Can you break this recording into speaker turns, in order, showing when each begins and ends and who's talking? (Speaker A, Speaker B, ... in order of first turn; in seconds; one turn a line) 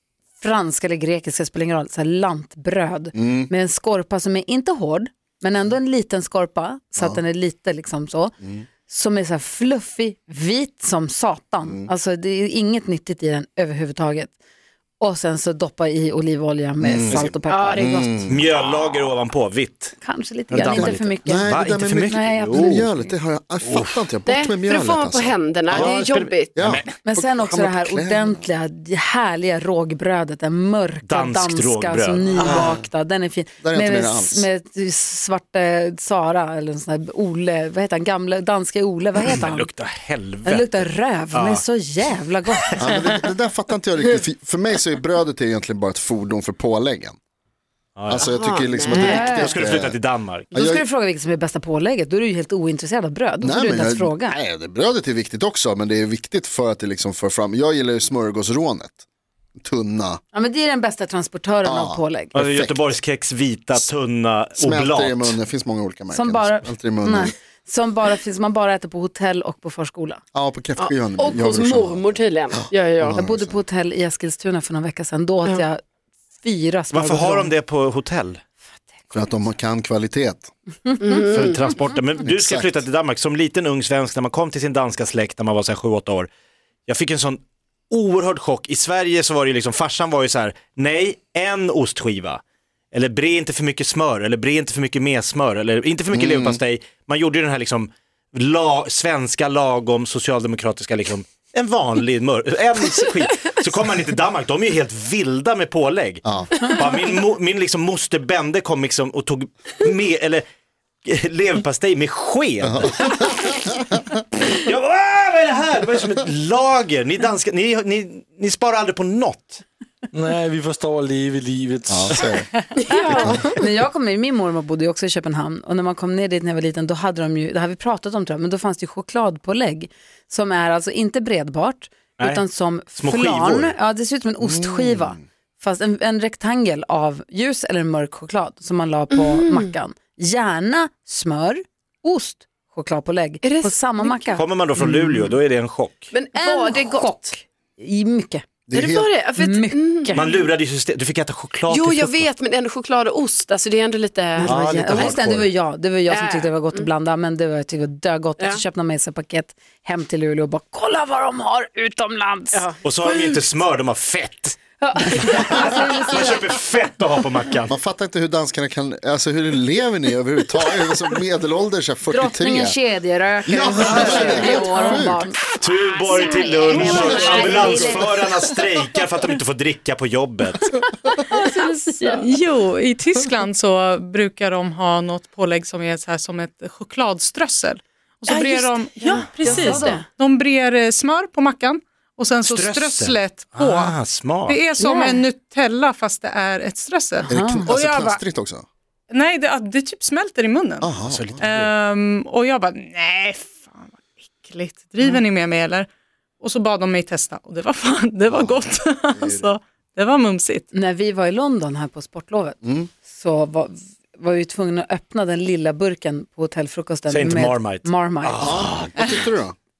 Speaker A: 0.4-8.3
Speaker B: 3.1-3.5
Speaker B: 8.4-8.7
Speaker A: 8.9-14.3
Speaker A: 15.0-17.9
Speaker B: 16.8-18.4
Speaker C: 17.5-18.8
Speaker D: 18.3-19.9
Speaker A: 20.0-21.5
Speaker D: 20.5-22.9
Speaker B: 20.7-26.0
Speaker A: 22.1-23.1
Speaker D: 23.6-24.0
Speaker C: 24.2-26.5
Speaker D: 25.7-26.9
Speaker B: 26.5-28.4
Speaker A: 27.0-39.7
Speaker D: 31.0-32.7
Speaker B: 32.4-32.9
Speaker B: 33.6-34.5
Speaker D: 39.3-41.6
Speaker A: 40.4-43.0
Speaker D: 42.5-43.0
Speaker B: 42.8-47.2
Speaker D: 48.0-48.4
Speaker B: 48.1-50.0
Speaker C: 48.1-49.5
Speaker A: 48.9-49.6
Speaker D: 49.1-50.5
Speaker A: 50.5-54.4
Speaker B: 50.5-50.8
Speaker B: 53.4-59.0
Speaker B: 59.5-60.2
Speaker A: 60.3-62.3
Speaker B: 61.6-62.9
Speaker D: 62.3-65.4
Speaker B: 64.6-67.3
Speaker A: 66.1-70.2
Speaker B: 70.3-73.6
Speaker C: 70.8-73.2
Speaker A: 73.2-75.8
Speaker A: 76.4-77.5
Speaker D: 76.9-78.4
Speaker B: 79.1-80.5
Speaker C: 81.0-81.6
Speaker D: 81.2-86.3
Speaker B: 82.2-82.8
Speaker D: 86.9-92.4
Speaker D: 92.9-110.4
Speaker B: 96.1-96.6
Speaker B: 106.2-106.7
Speaker D: 111.0-113.7
Speaker B: 112.6-114.0
Speaker D: 114.3-119.6
Speaker E: 120.1-122.3
Speaker B: 121.9-122.5
Speaker C: 122.7-123.6
Speaker A: 123.1-144.4
Speaker D: 132.9-133.7
Speaker B: 134.4-135.2
Speaker C: 139.1-139.7
Speaker C: 143.4-145.3
Speaker D: 144.4-146.1
Speaker C: 146.1-147.3
Speaker A: 146.3-148.4
Speaker B: 148.7-149.1
Speaker C: 148.7-150.5
Speaker A: 149.4-149.8
Speaker D: 150.1-152.3
Speaker C: 151.7-155.2
Speaker A: 154.3-162.7
Speaker D: 154.4-155.5
Speaker C: 156.1-156.9
Speaker C: 162.5-163.4
Speaker D: 162.8-164.6
Speaker A: 164.8-166.4
Speaker D: 165.2-167.7
Speaker B: 167.7-172.8
Speaker A: 172.1-175.4
Speaker B: 173.4-175.2
Speaker D: 175.6-180.8
Speaker A: 176.0-178.3
Speaker B: 176.8-178.0
Speaker F: 181.3-198.2
Speaker A: 181.4-182.2
Speaker C: 188.3-190.0
Speaker A: 189.4-190.0
Speaker D: 192.4-194.6
Speaker A: 194.8-195.2
Speaker A: 197.3-197.7
Speaker B: 197.3-198.7
Speaker F: 199.1-205.9
Speaker B: 200.8-201.4
Speaker D: 201.0-201.7
Speaker F: 206.4-210.7
Speaker B: 208.3-208.6
Speaker B: 209.1-209.5
Speaker A: 210.7-218.4
Speaker B: 212.6-212.9
Speaker D: 217.1-219.2
Speaker B: 218.4-219.5